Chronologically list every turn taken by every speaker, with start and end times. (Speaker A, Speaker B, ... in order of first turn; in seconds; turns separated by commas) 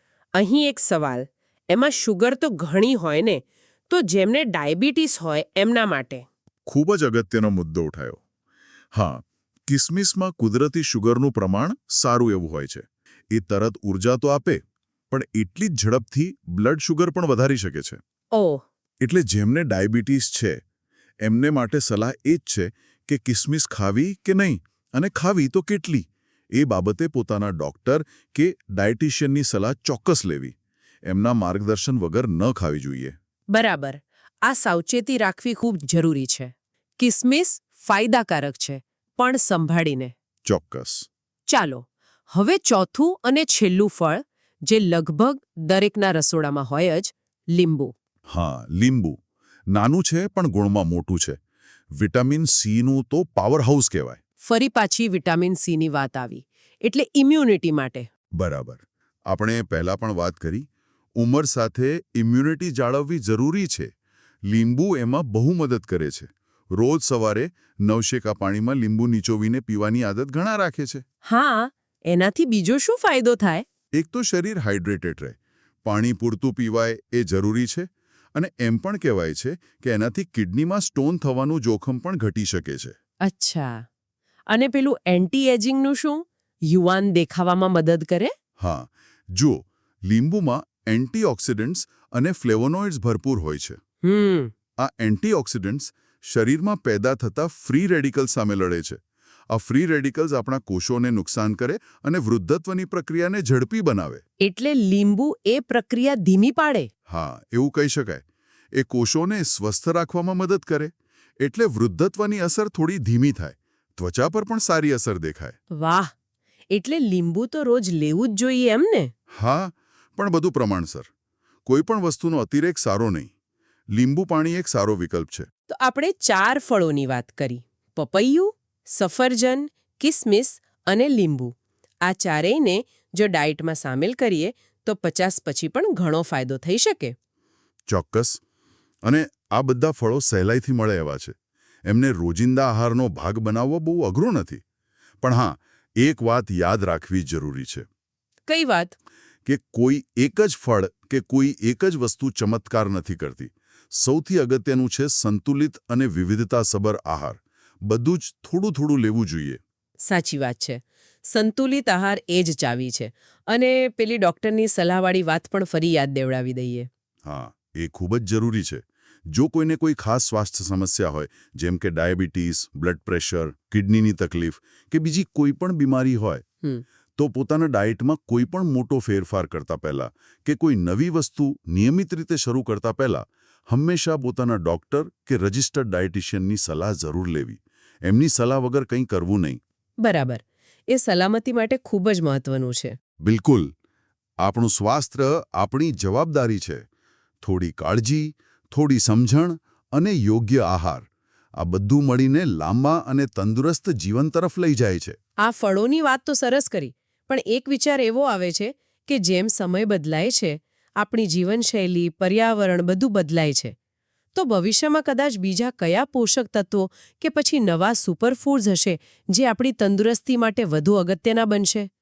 Speaker A: 0.3-6.2, Speaker B: 6.7-8.2, Speaker B: 8.9-18.0, Speaker A: 18.3-18.6, Speaker B: 19.0-20.6, Speaker B: 21.2-33.1, Speaker A: 33.5-40.1, Speaker B: 40.5-41.1, Speaker A: 41.5-47.9, Speaker B: 48.3-49.2, Speaker B: 49.7-51.4, Speaker B: 51.9-54.2, Speaker A: 54.4-58.0, Speaker B: 58.4-63.9, Speaker B: 64.5-71.0, Speaker A: 71.2-73.6, Speaker B: 73.9-82.9, Speaker A: 83.2-83.8, Speaker A: 84.5-88.3, Speaker B: 88.6-93.8, Speaker A: 94.0-94.5, Speaker B: 94.8-99.0, Speaker B: 99.5-104.2, Speaker A: 104.4-106.9, Speaker B: 107.1-115.6, Speaker A: 115.7-116.1, Speaker A: 116.7-119.1, Speaker B: 119.3-121.1, Speaker B: 121.7-123.3, Speaker B: 123.9-125.5, Speaker A: 125.7-137.1, Speaker B: 137.9-138.4, Speaker B: 139.0-141.3, Speaker B: 141.8-144.6, Speaker B: 145.2-147.8, Speaker A: 148.5-148.9, Speaker B: 149.4-159.6, Speaker A: 160.0-166.9, Speaker B: 167.2-176.4, Speaker B: 177.2-189.6, Speaker A: 190.0-192.9, Speaker B: 193.2-193.7, Speaker B: 194.4-196.8, Speaker B: 197.4-205.2, Speaker A: 205.4-213.7, Speaker A: 214.3-221.9